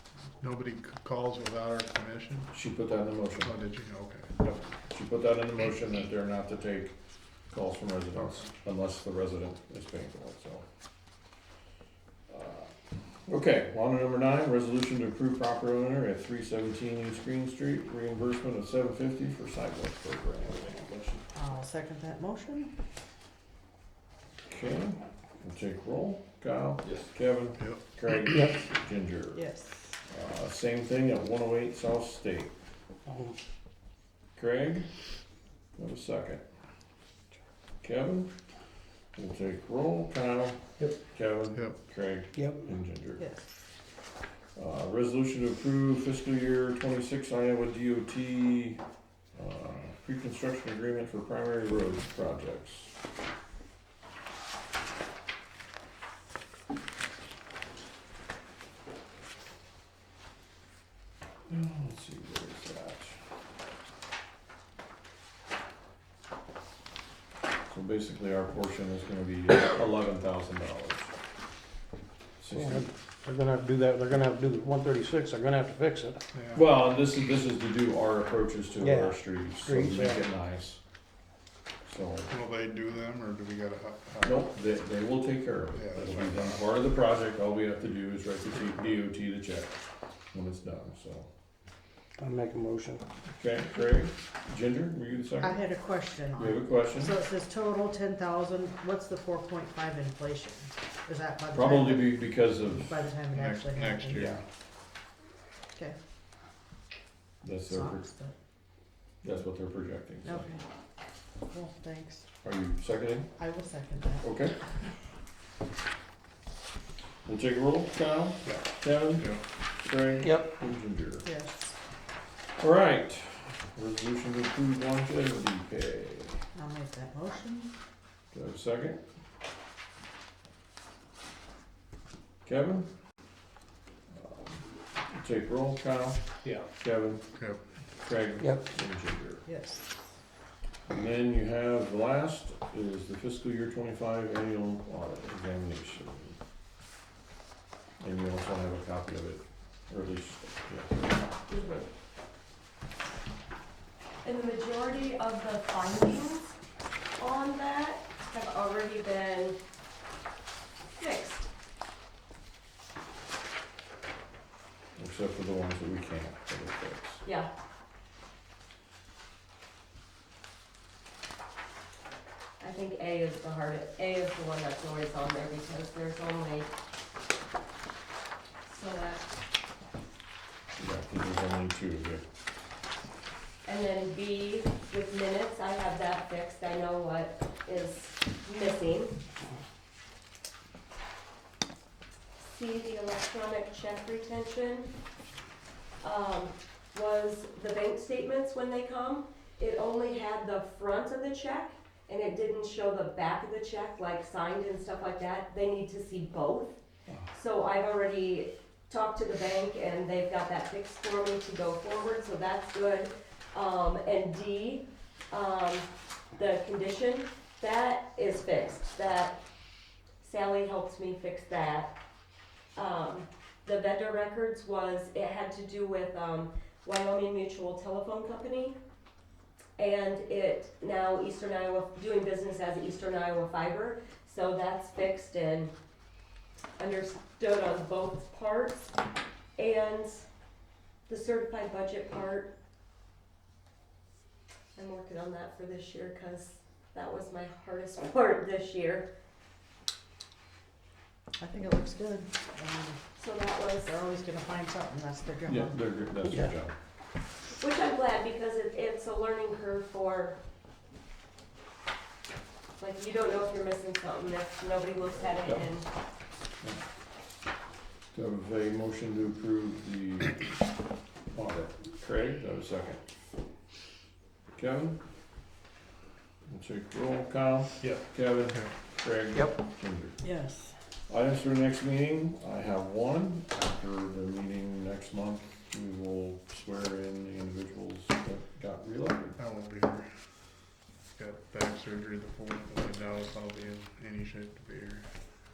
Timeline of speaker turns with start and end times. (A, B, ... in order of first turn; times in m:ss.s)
0:00.4-0:02.5 A
0:02.5-0:03.5 B
0:03.4-0:04.7 A
0:04.8-0:10.6 B
0:08.1-0:08.5 A
0:12.3-0:21.2 B
0:21.3-0:22.7 C
0:24.5-0:29.5 B
0:28.2-0:28.6 D
0:29.4-0:30.0 C
0:30.1-0:32.6 B
0:33.1-0:33.4 D
0:34.4-0:35.1 B
0:35.8-0:36.4 B
0:37.8-0:38.3 B
0:39.2-0:43.3 B
0:41.5-0:41.8 A
0:42.3-0:42.7 D
0:43.2-0:43.4 C
0:44.6-0:48.8 B
0:49.4-0:52.9 B
1:01.5-1:03.2 B
1:07.7-1:11.1 B
1:12.4-1:12.9 B
1:12.5-1:16.2 D
1:16.3-1:16.6 A
1:16.5-1:20.8 B
1:18.8-1:20.2 D
1:21.8-1:22.3 B
1:22.3-1:24.5 A
1:24.2-1:31.3 B
1:25.7-1:26.6 A
1:32.2-1:33.0 D
1:33.4-1:35.7 B
1:35.4-1:44.4 C
1:36.4-1:37.2 B
1:41.5-1:43.1 B
1:43.3-1:44.4 A
1:44.1-1:44.4 B
1:47.4-1:48.1 B
1:47.7-1:48.3 C
1:49.2-1:50.5 B
1:50.3-1:50.6 C
1:51.5-1:52.2 C
1:52.4-1:53.3 B
1:53.4-1:54.2 C
1:54.2-1:54.6 B
1:57.2-2:01.3 B
2:00.2-2:00.5 D
2:01.2-2:01.8 C
2:02.6-2:06.5 B
2:06.5-2:07.7 C
2:08.3-2:09.0 B
2:12.4-2:12.9 B
2:14.1-2:17.2 B
2:17.4-2:17.6 A
2:18.0-2:19.4 B
2:18.4-2:18.6 D
2:19.5-2:20.0 C
2:20.9-2:26.4 B
2:28.0-2:31.7 B
2:31.5-2:31.9 E
2:34.2-2:36.6 E
2:37.2-2:39.6 E
2:41.0-2:41.4 E
2:45.0-2:47.2 B
2:47.2-2:47.5 E
2:52.6-2:56.7 E
2:58.7-2:59.3 E
3:00.8-3:02.2 B
3:03.7-3:09.2 E
3:12.4-3:14.9 E
3:16.0-3:26.8 E
3:27.3-3:39.4 E
3:40.2-3:42.0 E
3:42.8-3:48.8 E
3:49.8-3:55.7 E
3:56.8-3:58.9 E
3:59.6-4:00.3 E
4:01.1-4:02.5 E
4:04.8-4:09.1 E
4:11.4-4:13.0 C
4:13.2-4:14.0 E
4:13.8-4:15.8 C
4:15.5-4:16.8 B
4:16.2-4:16.5 D
4:17.6-4:20.4 E
4:22.8-4:25.9 E
4:25.4-4:25.8 B
4:28.1-4:30.6 B
4:31.3-4:33.0 B
4:34.6-4:35.0 B
4:36.5-4:40.2 B
4:37.8-4:38.7 A
4:40.2-4:40.8 C
4:41.1-4:49.4 B
4:49.4-4:50.1 A
4:51.2-4:55.1 A